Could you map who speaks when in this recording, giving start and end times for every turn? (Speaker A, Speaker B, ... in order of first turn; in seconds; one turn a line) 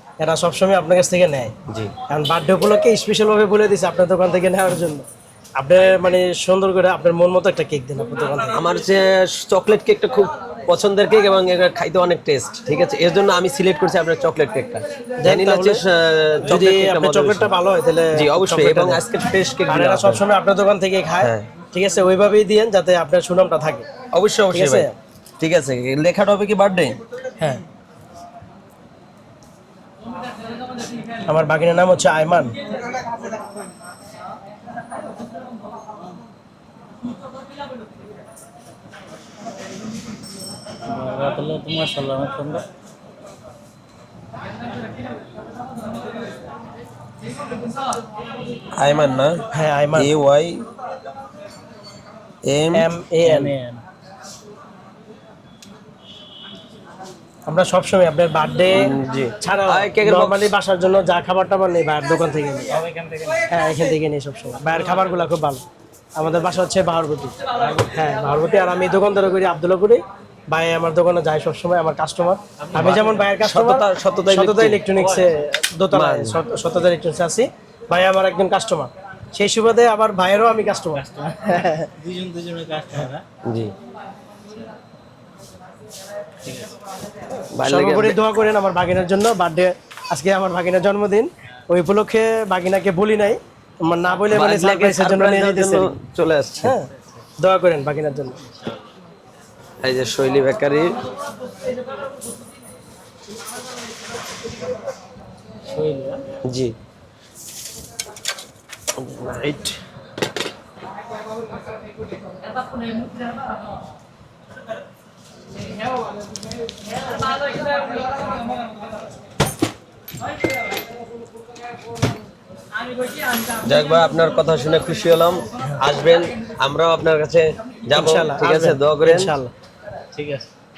Speaker A: 0.2-1.5
Speaker B: 1.7-1.9
Speaker A: 2.1-8.6
Speaker B: 8.5-17.5
Speaker A: 15.2-15.8
Speaker A: 16.5-19.0
Speaker B: 18.1-20.2
Speaker A: 19.7-23.9
Speaker B: 21.2-21.5
Speaker B: 24.1-24.9
Speaker A: 24.5-24.9
Speaker B: 25.4-27.0
Speaker A: 31.2-32.5
Speaker C: 40.9-42.6
Speaker B: 48.8-49.4
Speaker A: 49.5-50.1
Speaker B: 49.9-50.6
Speaker B: 52.4-52.9
Speaker A: 52.7-53.5
Speaker C: 53.2-53.8
Speaker A: 57.5-62.7
Speaker B: 58.7-60.5
Speaker C: 62.7-63.5
Speaker A: 63.5-65.6
Speaker A: 66.2-81.9
Speaker C: 72.7-73.2
Speaker B: 72.7-75.2
Speaker B: 75.9-76.4
Speaker C: 82.0-83.2
Speaker B: 83.4-83.7
Speaker C: 86.4-86.7
Speaker B: 87.5-88.2
Speaker A: 87.6-95.9
Speaker B: 94.3-96.8
Speaker A: 96.6-96.9
Speaker A: 97.4-98.4
Speaker B: 99.8-101.0
Speaker C: 105.7-106.2
Speaker B: 106.4-106.7
Speaker B: 109.0-109.8
Speaker B: 123.6-129.3
Speaker A: 127.9-129.5
Speaker C: 130.1-130.5